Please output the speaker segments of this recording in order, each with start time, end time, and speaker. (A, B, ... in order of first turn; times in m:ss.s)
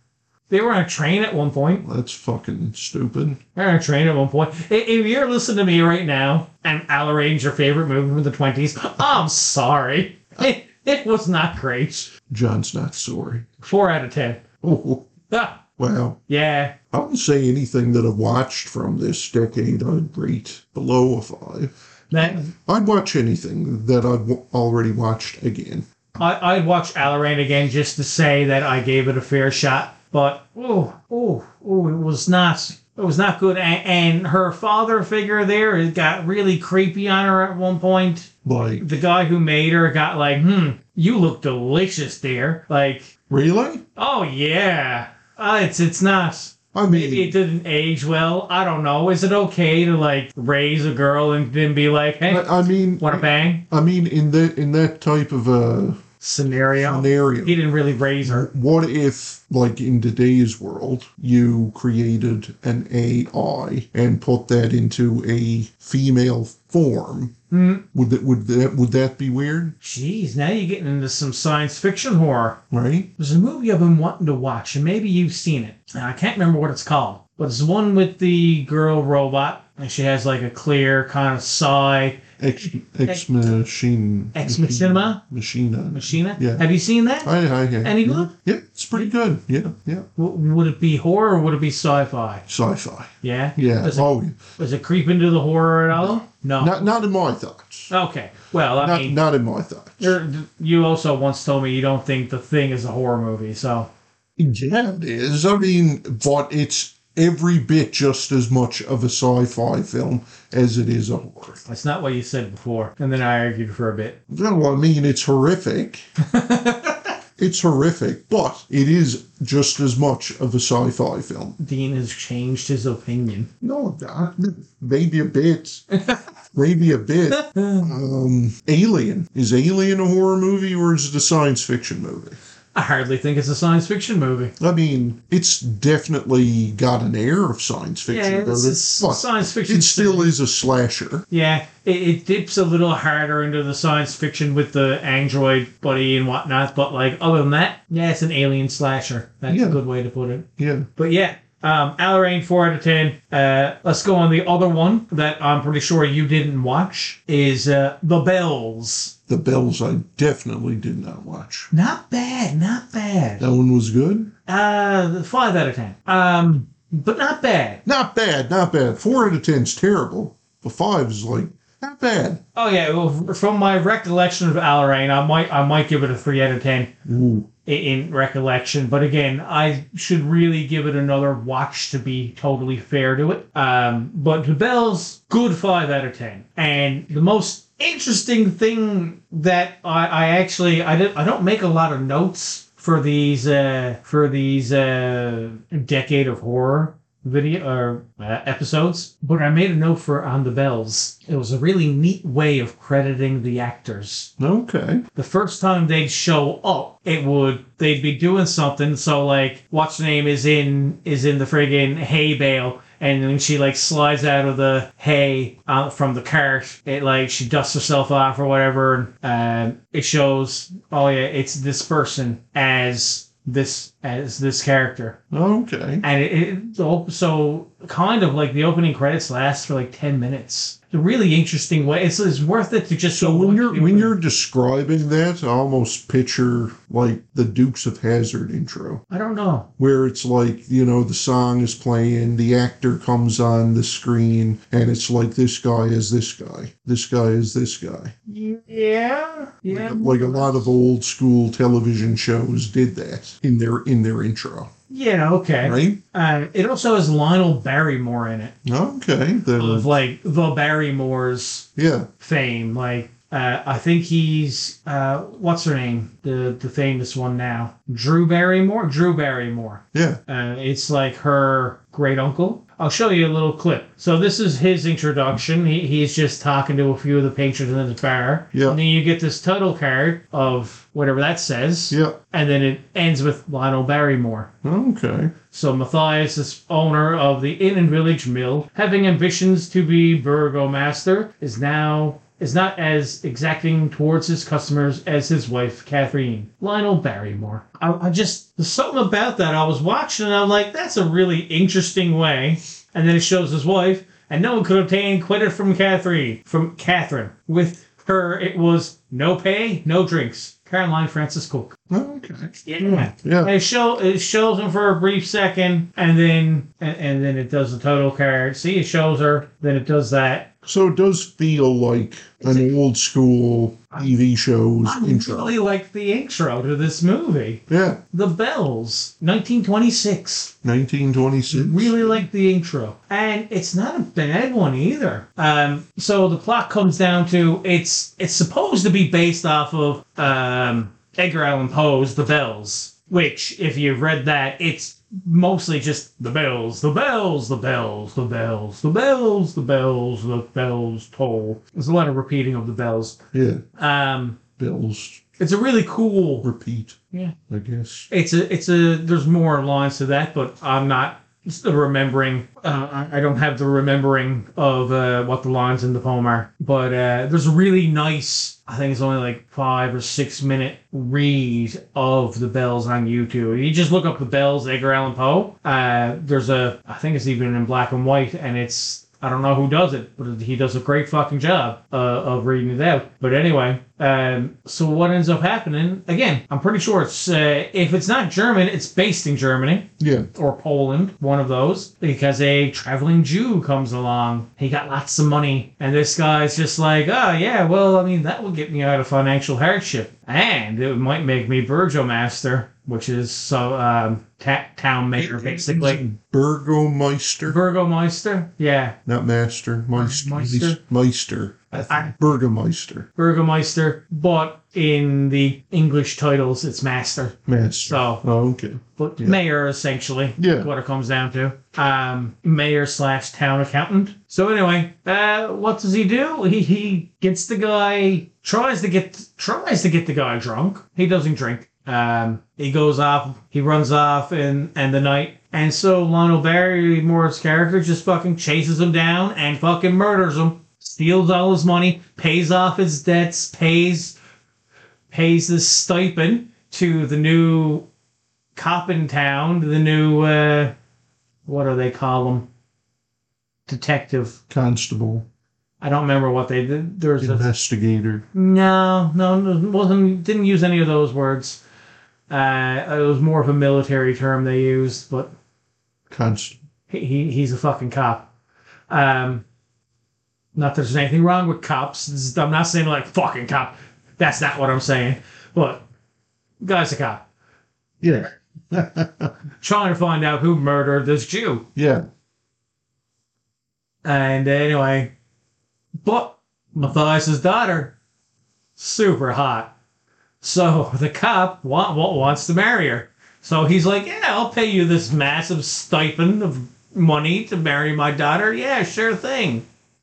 0:00.5-0:01.8 A
0:01.8-0:03.4 B
0:03.5-0:12.1 A
0:12.3-0:13.5 B
0:13.6-0:14.4 A
0:14.6-0:15.1 B
0:15.3-0:15.6 A
0:15.8-0:16.2 B
0:16.3-0:16.8 A
0:16.9-0:25.9 B
0:22.1-0:22.5 A
0:26.2-0:43.1 A
0:38.4-0:38.8 B
0:43.3-0:43.8 B
0:44.0-0:53.6 A
0:46.7-0:47.3 B
0:52.3-0:56.0 B
0:56.2-0:58.5 A
0:56.8-0:57.6 B
0:58.2-1:07.3 B
1:07.5-1:07.8 A
1:07.9-1:09.7 B
1:09.8-1:12.6 A
1:12.7-1:13.1 B
1:13.2-1:22.3 A
1:22.4-1:26.6 B
1:24.3-1:25.2 A
1:25.9-1:27.3 A
1:27.2-1:30.1 B
1:27.8-1:28.3 A
1:30.2-1:32.4 A
1:32.5-1:34.4 B
1:33.2-1:34.0 A
1:34.6-1:36.9 A
1:35.9-1:37.9 B
1:37.9-1:39.2 A
1:38.8-1:40.2 B
1:40.0-1:43.9 A
1:44.4-1:51.6 B
1:51.6-1:54.2 A
1:54.3-1:56.0 B
1:56.2-1:57.1 A
1:57.4-2:01.6 B
2:01.6-2:03.5 A
2:03.6-2:05.8 B
2:06.5-2:12.4 B
2:07.3-2:07.9 A
2:12.7-2:14.5 A
2:14.6-2:21.2 B
2:18.1-2:20.3 A
2:21.3-2:39.1 A
2:29.5-2:29.8 B
2:30.6-2:30.9 B
2:39.3-2:41.7 B
2:41.7-2:43.5 A
2:43.4-2:44.3 B
2:44.4-2:47.8 A
2:47.8-2:52.4 B
2:52.5-2:56.9 A
2:57.0-2:57.5 B
2:57.6-3:24.3 A
3:24.4-3:25.0 B
3:25.1-3:45.2 A
3:45.3-3:46.0 B
3:46.0-3:54.1 A
3:53.1-3:59.0 B
3:59.1-3:59.7 A
3:59.8-4:08.1 B
4:08.3-4:10.7 A
4:09.7-4:14.7 B
4:14.9-4:18.5 A
4:15.6-4:16.0 B
4:18.6-4:19.9 B
4:19.6-4:21.6 A
4:21.8-4:22.1 B
4:22.2-4:44.5 A
4:29.9-4:30.2 B
4:38.5-4:38.8 B
4:41.9-4:42.2 B
4:44.6-4:45.3 B
4:45.5-5:11.8 A
5:11.9-5:13.5 B
5:12.6-5:20.5 A
5:20.6-5:25.5 B
5:22.4-5:22.7 A
5:24.8-5:30.5 A
5:27.7-5:28.0 B
5:30.6-5:32.2 B
5:31.5-5:53.2 A
5:53.3-5:53.6 B
5:53.8-5:54.4 A
5:54.6-5:55.2 B
5:55.4-5:56.5 A
5:56.4-5:57.0 B
5:57.5-5:58.1 B
5:58.1-6:46.0 A
6:30.0-6:30.3 B
6:45.2-6:47.6 B
6:47.4-6:49.0 A
6:49.0-6:53.1 B
6:49.9-6:50.8 A
6:51.8-6:52.1 A
6:53.2-6:58.2 A
6:57.5-6:59.4 B
6:59.0-7:24.2 A
7:00.4-7:00.7 B
7:25.1-7:27.8 A
7:28.6-7:30.7 A
7:31.4-7:32.5 A
7:33.7-7:34.4 A
7:34.5-7:35.3 B
7:35.8-7:37.5 A
7:37.2-7:38.2 B
7:38.3-7:41.6 A
7:42.3-7:45.3 A
7:46.1-7:46.6 B
7:46.9-7:48.3 A
7:48.9-7:49.4 A
7:50.5-7:55.8 A
7:56.6-7:57.2 A
7:58.0-7:59.3 B
7:59.6-8:01.6 A
8:01.8-8:02.0 B
8:04.0-8:05.1 A
8:06.0-8:07.9 A
8:08.8-8:09.7 A
8:10.4-8:19.6 A